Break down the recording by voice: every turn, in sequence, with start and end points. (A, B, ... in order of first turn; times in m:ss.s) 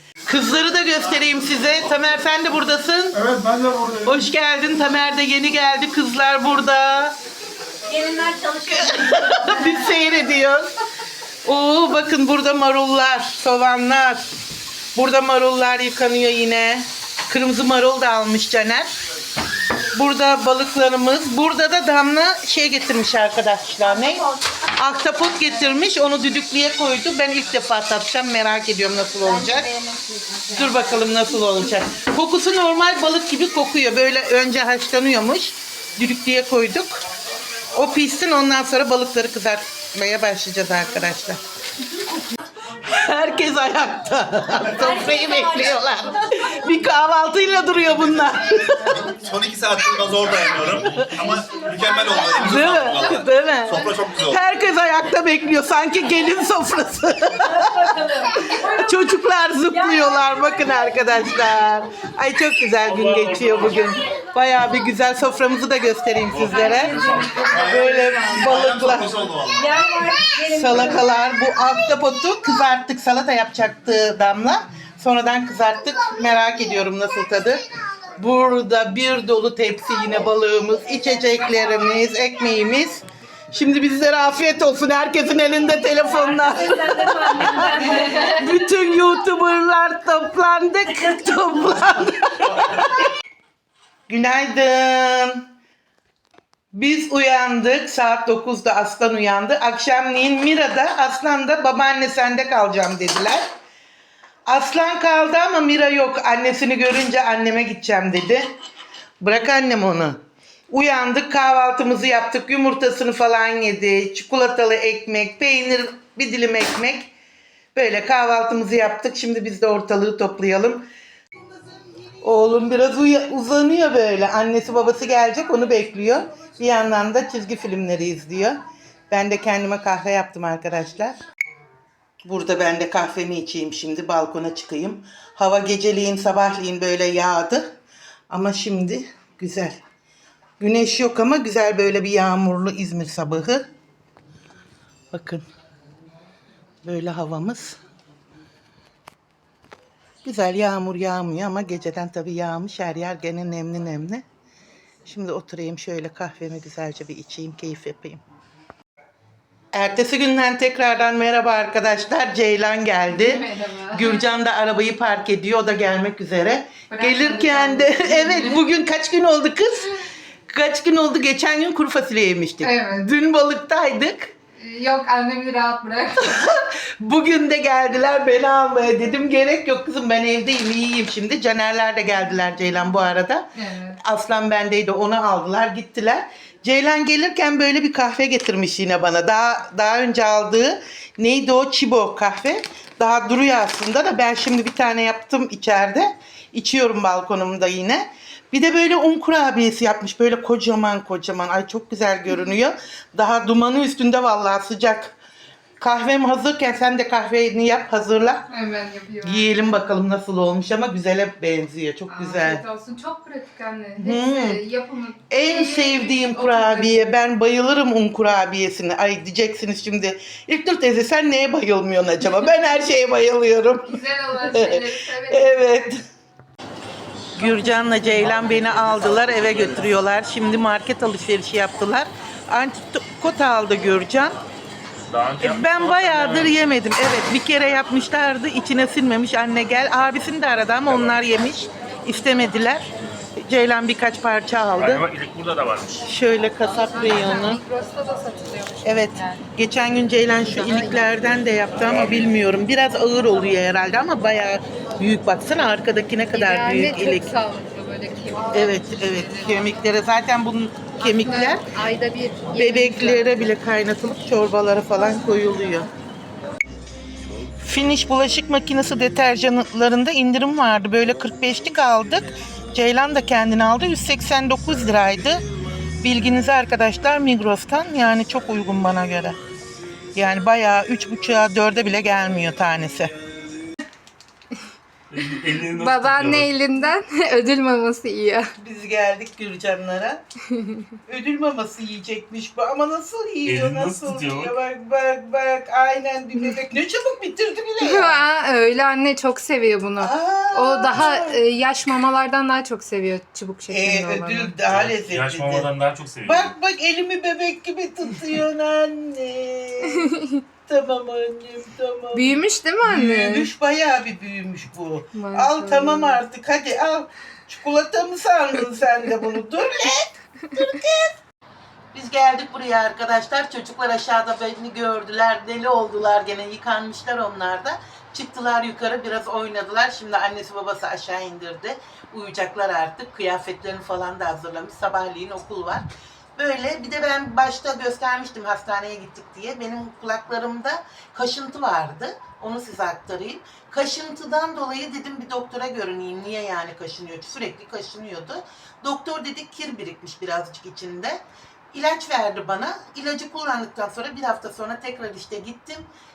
0:00.3-0:07.1 A
0:07.9-0:10.7 A
0:11.4-0:14.3 A
0:14.9-0:18.9 A
0:19.9-0:29.7 A
0:29.7-0:30.4 B
0:30.5-0:37.0 A
0:37.7-0:41.4 A
0:42.7-0:49.2 A
0:49.0-0:54.4 C
0:50.6-0:51.3 A
0:52.2-1:09.2 A
1:02.8-1:03.9 D
1:06.3-1:07.5 D
1:06.5-1:08.2 B
1:07.4-1:09.8 C
1:09.6-1:11.0 B
1:10.4-1:17.6 A
1:18.2-1:33.1 A
1:27.6-1:28.2 B
1:34.1-1:35.5 A
1:36.7-1:43.4 A
1:44.5-1:48.5 A
1:49.2-1:50.2 A
1:50.7-1:57.1 A
1:57.7-2:00.9 A
2:02.2-2:11.2 A
2:12.2-2:17.8 A
2:18.3-2:19.8 A
2:20.6-2:23.6 A
2:25.1-2:25.4 A
2:26.8-2:27.8 A
2:30.2-2:34.2 A
2:35.0-2:38.2 A
2:39.7-2:54.3 A
2:43.1-2:44.3 B
2:46.9-2:48.6 B
2:52.6-2:53.1 B
2:54.6-2:56.4 B
2:56.2-3:25.1 A
3:03.6-3:04.0 B
3:25.8-3:28.5 A
3:28.5-3:29.8 B
3:29.2-3:32.6 A
3:32.1-3:37.0 B
3:34.0-3:34.6 A
3:35.3-3:46.0 A
3:43.8-3:45.9 B
3:47.3-3:54.3 A
3:47.4-3:48.1 B
3:48.2-3:49.8 D
3:55.1-3:56.6 D
3:55.4-4:02.8 A
4:03.4-4:05.0 A
4:04.8-4:06.0 D
4:06.0-4:07.6 A
4:06.6-4:09.4 B
4:08.8-4:17.4 A
4:10.5-4:11.1 B
4:11.9-4:12.2 D
4:16.3-4:19.7 B
4:18.5-4:21.7 A
4:21.0-4:23.5 B
4:22.5-4:25.9 A
4:27.6-4:35.4 A
4:36.0-4:39.4 A
4:40.1-4:43.1 A
4:45.1-4:46.5 D
4:45.6-4:48.5 B
4:48.6-4:50.2 A
4:51.0-4:58.3 A
4:53.4-4:54.6 D
4:57.8-5:04.5 B
5:00.0-5:01.4 A
5:03.7-5:05.7 A
5:04.6-5:06.5 D
5:06.2-5:21.2 A
5:12.1-5:13.5 B
5:15.1-5:16.2 B
5:21.9-5:35.8 A
5:36.4-5:55.9 A